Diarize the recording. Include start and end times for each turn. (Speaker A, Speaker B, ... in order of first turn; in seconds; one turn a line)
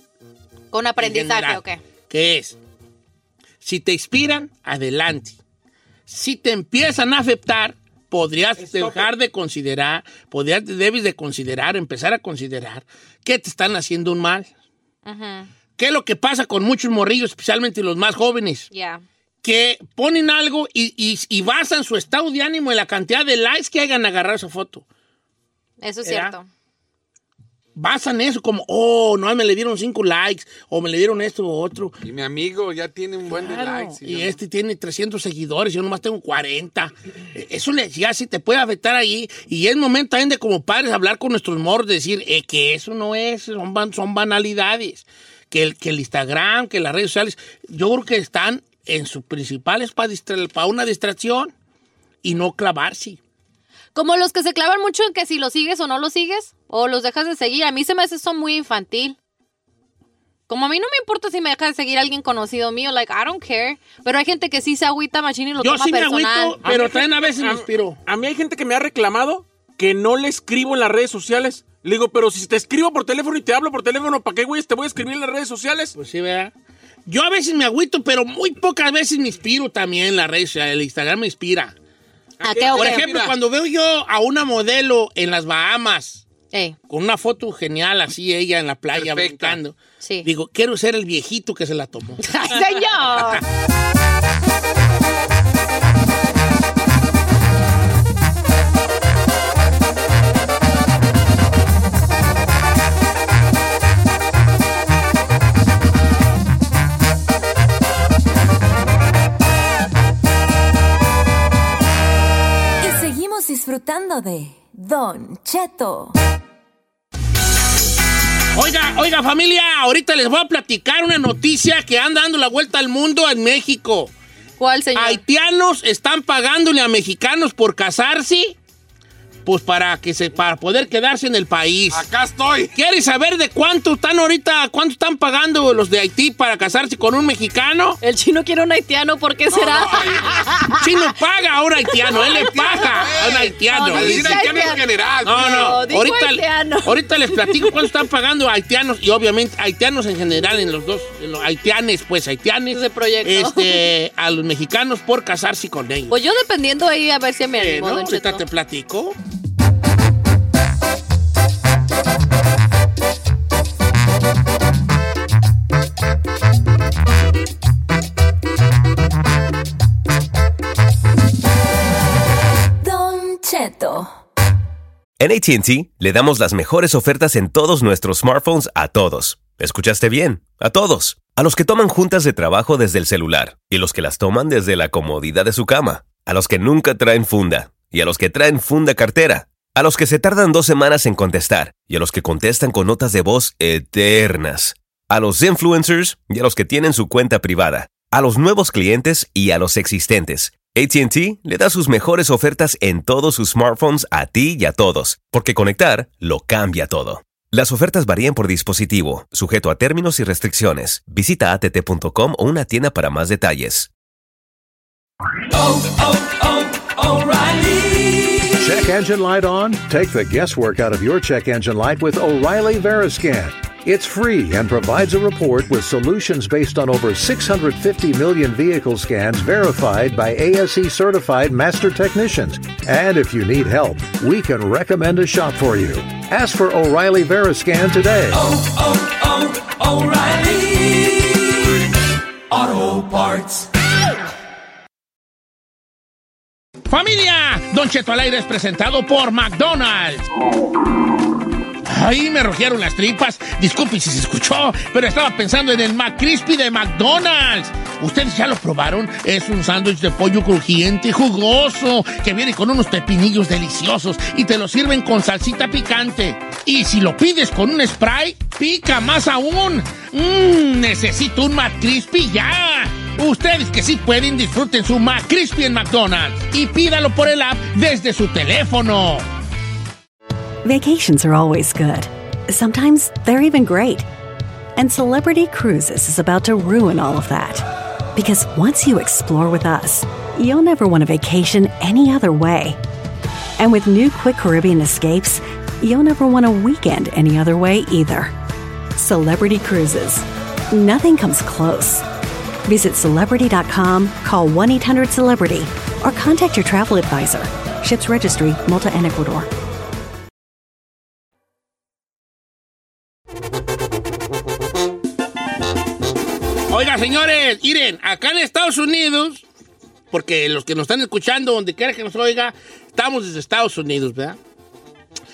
Speaker A: 0.7-1.8
Speaker B: 1.0-2.6
Speaker B: 3.6-5.4
Speaker B: 6.1-14.5
Speaker C: 8.7-9.0
Speaker A: 15.1-15.5
Speaker B: 15.8-18.7
Speaker A: 18.7-19.0
Speaker B: 19.4-24.9
Speaker A: 25.8-26.5
Speaker B: 26.0-26.3
Speaker B: 27.8-32.0
Speaker D: 32.0-34.4
Speaker B: 33.3-51.5
Speaker B: 52.2-53.2
Speaker A: 54.0-59.2
Speaker A: 60.5-66.6
Speaker B: 65.6-68.0
Speaker C: 66.7-76.0
Speaker B: 76.0-76.5
Speaker B: 77.1-81.8
Speaker D: 82.4-83.3
Speaker A: 82.5-83.1
Speaker B: 82.7-86.2
Speaker A: 86.5-86.8
Speaker B: 86.9-92.2
Speaker D: 88.9-89.6
Speaker A: 92.2-93.4
Speaker E: 112.8-116.2
Speaker B: 118.5-124.1
Speaker A: 124.6-125.2
Speaker B: 125.0-128.6
Speaker B: 129.5-132.1
Speaker D: 131.9-132.7
Speaker B: 132.7-138.0
Speaker A: 138.0-140.9
Speaker D: 139.5-140.5
Speaker B: 140.8-144.7
Speaker D: 142.1-145.9
Speaker A: 143.7-147.7
Speaker B: 145.2-156.2
Speaker A: 152.7-153.9
Speaker A: 156.1-158.4
Speaker B: 157.5-159.2
Speaker E: 172.8-174.1
Speaker F: 175.2-213.9
Speaker G: 218.5-238.6
Speaker B: 246.9-250.3
Speaker B: 251.8-279.3
Speaker H: 280.6-284.1
Speaker H: 284.8-292.8
Speaker H: 293.6-298.3
Speaker H: 298.9-302.0
Speaker H: 302.7-309.5
Speaker B: 316.7-319.4
Speaker B: 320.1-324.4